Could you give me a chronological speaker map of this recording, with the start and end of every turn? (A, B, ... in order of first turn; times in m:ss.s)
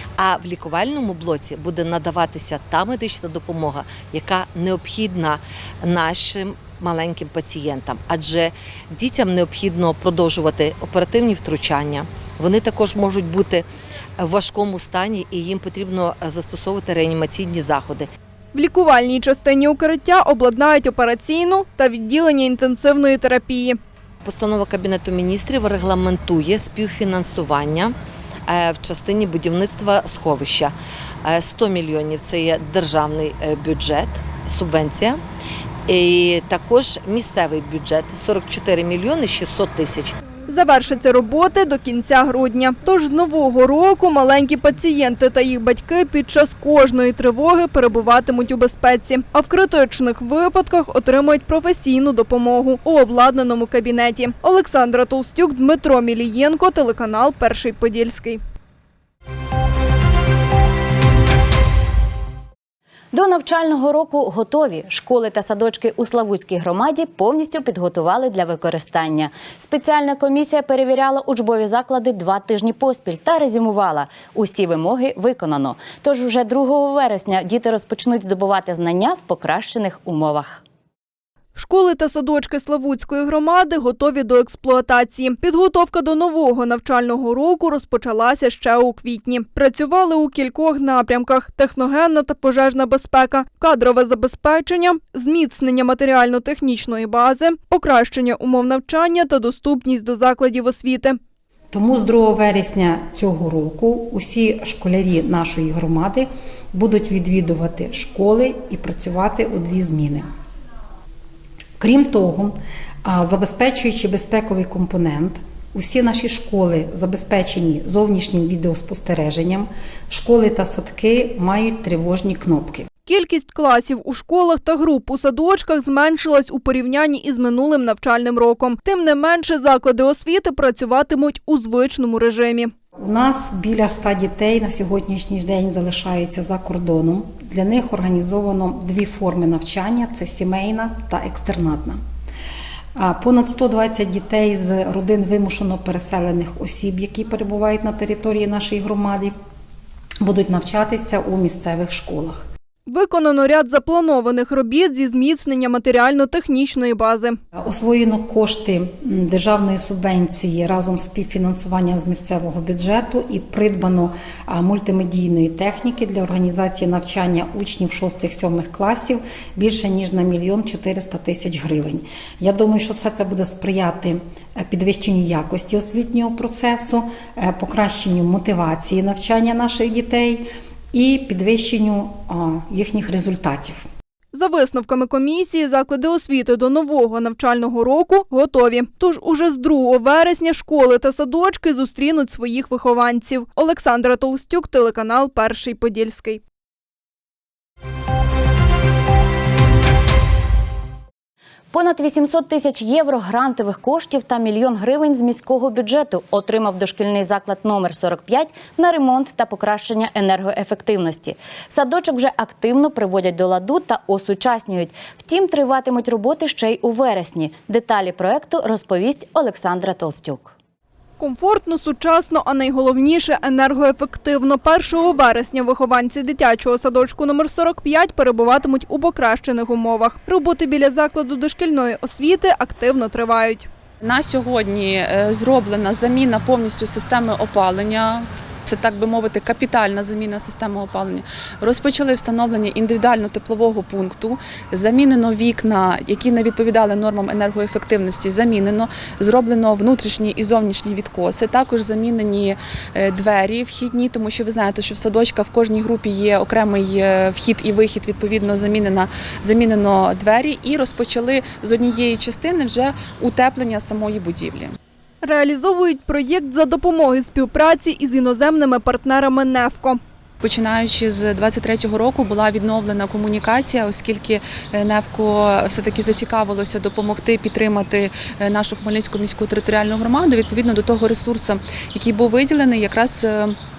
0:00.2-0:13.6 A
0:14.2-0:18.1 A
0:18.5-0:23.8 B
0:24.2-0:27.9 A
0:28.5-0:35.2 A
0:35.9-0:40.2 A
0:40.5-0:58.4 B
1:03.1-1:20.6 C
1:21.6-1:41.2 B
1:41.7-1:50.2 D
1:51.8-2:02.9 D
2:03.0-2:12.7 B
2:13.0-2:22.0 D
2:23.0-2:29.3 D
2:30.2-2:32.5 D
2:32.9-2:37.4 B
2:37.6-3:03.8 D
3:04.3-3:16.4 B
3:21.7-3:40.5 C
3:41.2-3:53.7 B
3:54.0-4:24.8 E
4:25.2-4:30.0 B
4:30.4-4:43.6 E